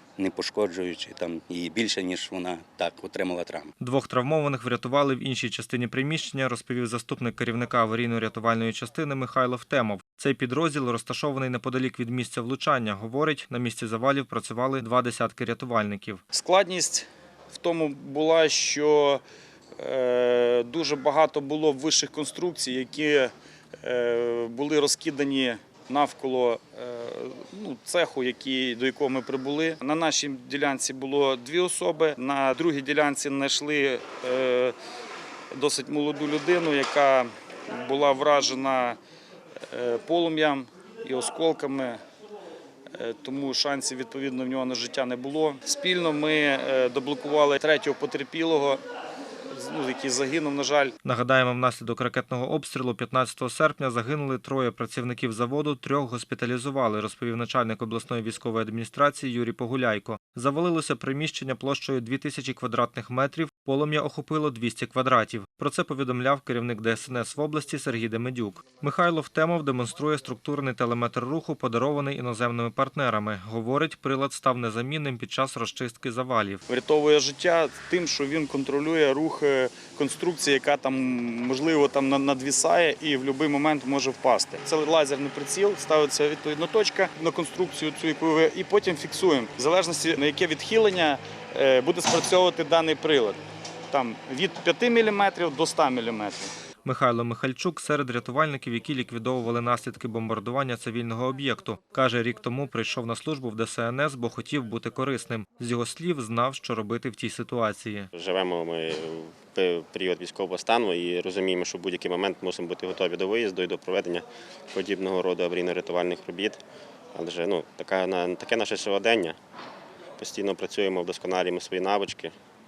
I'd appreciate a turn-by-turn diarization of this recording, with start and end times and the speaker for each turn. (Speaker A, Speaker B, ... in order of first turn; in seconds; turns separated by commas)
Speaker A: 0.2-3.7, Speaker B: 3.8-16.2, Speaker C: 16.3-19.2, Speaker C: 19.8-23.3, Speaker C: 23.8-34.8, Speaker C: 35.5-39.0, Speaker C: 39.7-42.0, Speaker C: 42.9-48.8, Speaker C: 49.5-50.9, Speaker B: 51.0-76.6, Speaker C: 76.7-93.4, Speaker C: 93.9-96.5, Speaker B: 96.8-108.1, Speaker D: 108.1-116.6, Speaker D: 117.1-119.4, Speaker D: 120.2-122.3